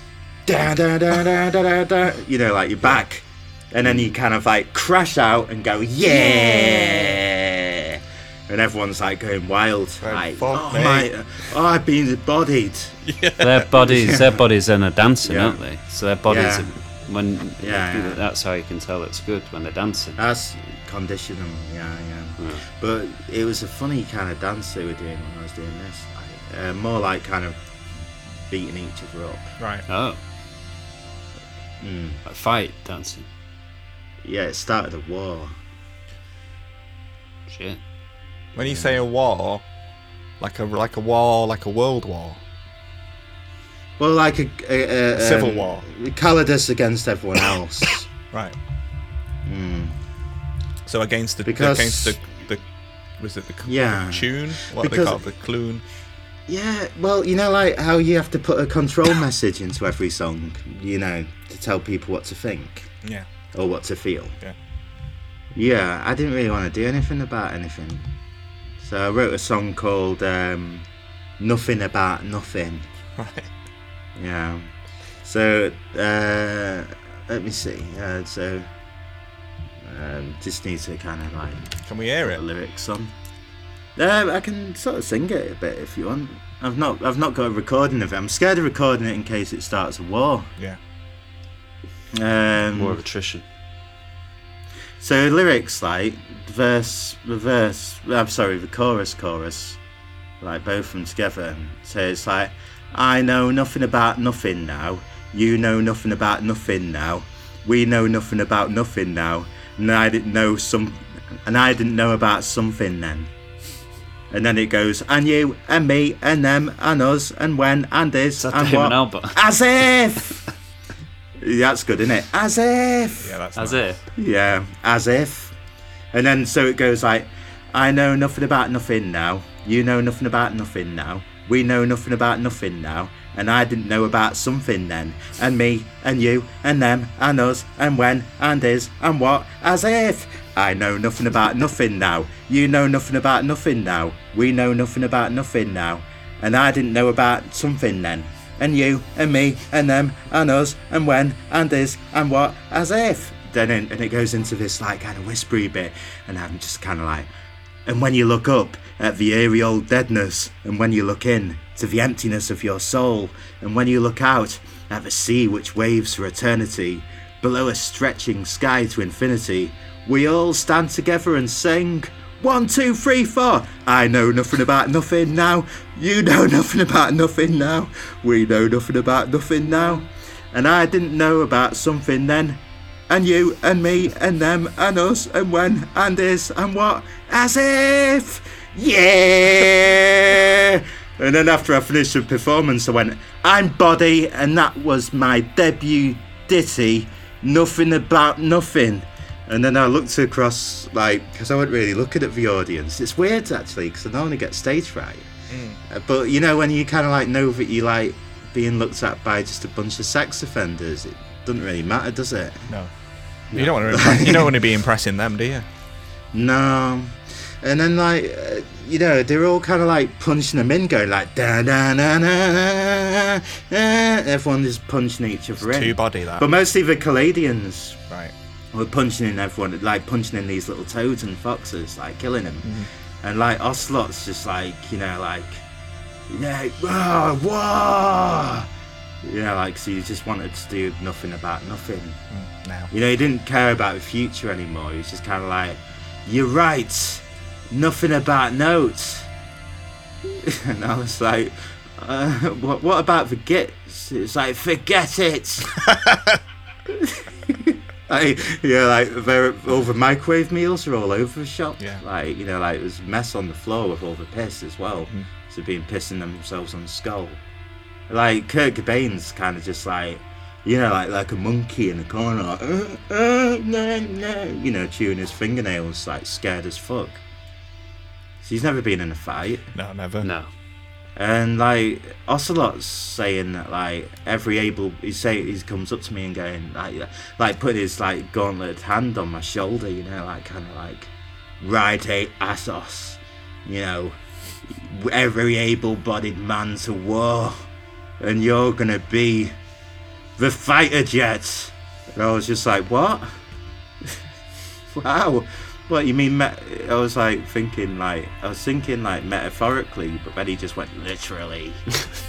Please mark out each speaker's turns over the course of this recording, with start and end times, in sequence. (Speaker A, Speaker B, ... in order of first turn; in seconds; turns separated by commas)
Speaker A: 0.5-13.1, Speaker B: 3.8-4.1, Speaker C: 6.1-7.1, Speaker C: 10.0-11.1, Speaker C: 13.0-13.7, Speaker B: 13.4-20.2, Speaker A: 13.7-14.3, Speaker A: 15.2-15.6, Speaker A: 16.2-16.7, Speaker A: 17.6-18.2, Speaker A: 20.2-29.6, Speaker B: 22.4-22.6, Speaker C: 29.6-29.8, Speaker B: 29.9-30.2, Speaker A: 31.8-32.2, Speaker B: 32.2-33.3, Speaker A: 34.2-35.6, Speaker B: 37.5-37.8, Speaker C: 38.5-39.7, Speaker C: 40.4-42.4, Speaker A: 44.0-48.1, Speaker C: 45.1-45.9, Speaker C: 48.3-48.6, Speaker A: 49.4-50.0, Speaker C: 50.9-52.6, Speaker A: 51.4-52.2, Speaker C: 53.2-55.8, Speaker A: 53.6-55.2, Speaker A: 56.5-62.9, Speaker C: 63.0-63.3, Speaker A: 63.5-64.4, Speaker A: 65.5-68.2, Speaker A: 68.8-70.9, Speaker A: 71.4-72.9, Speaker C: 73.2-73.5, Speaker A: 74.2-78.7, Speaker A: 79.8-83.1, Speaker C: 81.8-82.4, Speaker A: 84.0-90.5, Speaker A: 92.1-93.0, Speaker B: 92.7-93.4, Speaker A: 95.0-99.8, Speaker A: 100.4-113.3, Speaker A: 114.3-120.5, Speaker B: 118.4-119.4, Speaker A: 121.4-123.3, Speaker C: 123.2-124.0, Speaker B: 123.5-124.0, Speaker A: 124.1-125.6, Speaker A: 126.1-157.3, Speaker A: 157.8-212.7, Speaker C: 205.5-205.8, Speaker C: 212.7-215.7, Speaker B: 213.5-213.8, Speaker A: 213.9-214.5, Speaker A: 216.3-228.0, Speaker C: 225.6-226.4, Speaker A: 228.7-235.6, Speaker C: 232.6-232.9, Speaker A: 236.3-238.7, Speaker A: 239.2-242.2, Speaker C: 242.3-242.9, Speaker A: 242.9-249.3, Speaker A: 250.2-255.8, Speaker C: 255.8-256.4, Speaker A: 256.9-267.4, Speaker C: 261.8-262.0, Speaker A: 268.1-277.2, Speaker A: 278.4-279.7, Speaker C: 279.7-280.3, Speaker B: 280.2-280.5, Speaker A: 281.1-299.5, Speaker A: 300.4-303.4, Speaker A: 304.9-311.9